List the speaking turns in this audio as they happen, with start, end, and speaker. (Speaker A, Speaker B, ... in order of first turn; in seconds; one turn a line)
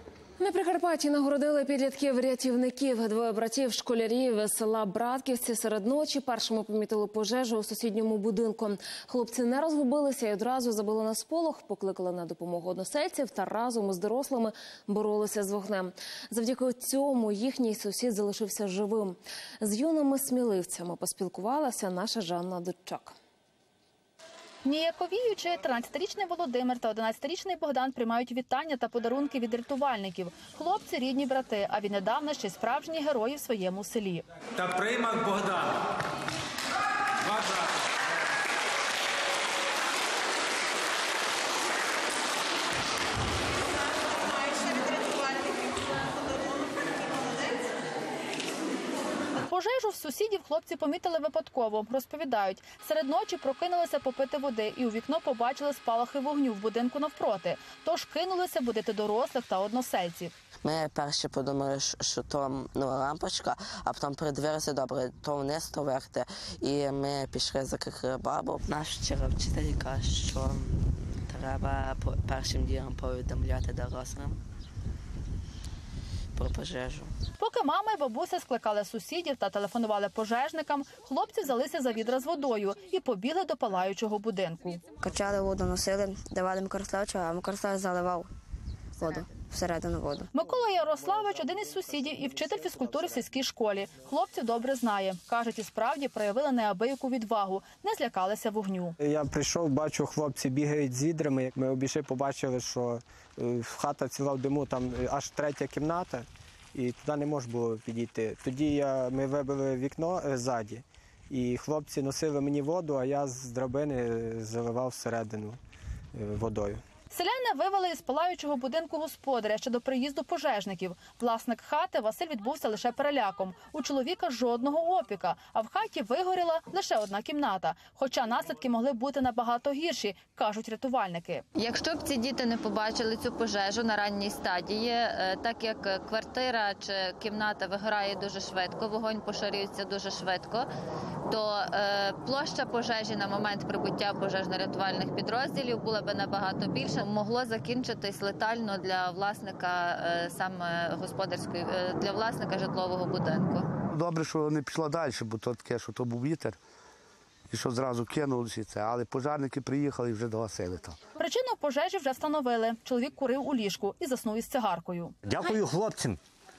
Speaker A: 0.4-23.1
Speaker B: 24.6-34.2
Speaker B: 49.4-60.3
Speaker C: 60.6-70.2
Speaker C: 72.3-74.1
Speaker C: 76.4-77.0
Speaker B: 77.4-84.9
Speaker D: 84.9-88.3
Speaker D: 89.0-90.3
Speaker B: 90.3-98.9
Speaker E: 99.0-106.2
Speaker E: 106.8-115.6
Speaker E: 116.2-116.8
Speaker B: 117.1-131.4
Speaker F: 131.6-140.7
Speaker F: 141.3-153.7
Speaker G: 153.8-156.6
Speaker G: 157.5-160.9
Speaker B: 161.2-165.1
Speaker G: 165.2-166.2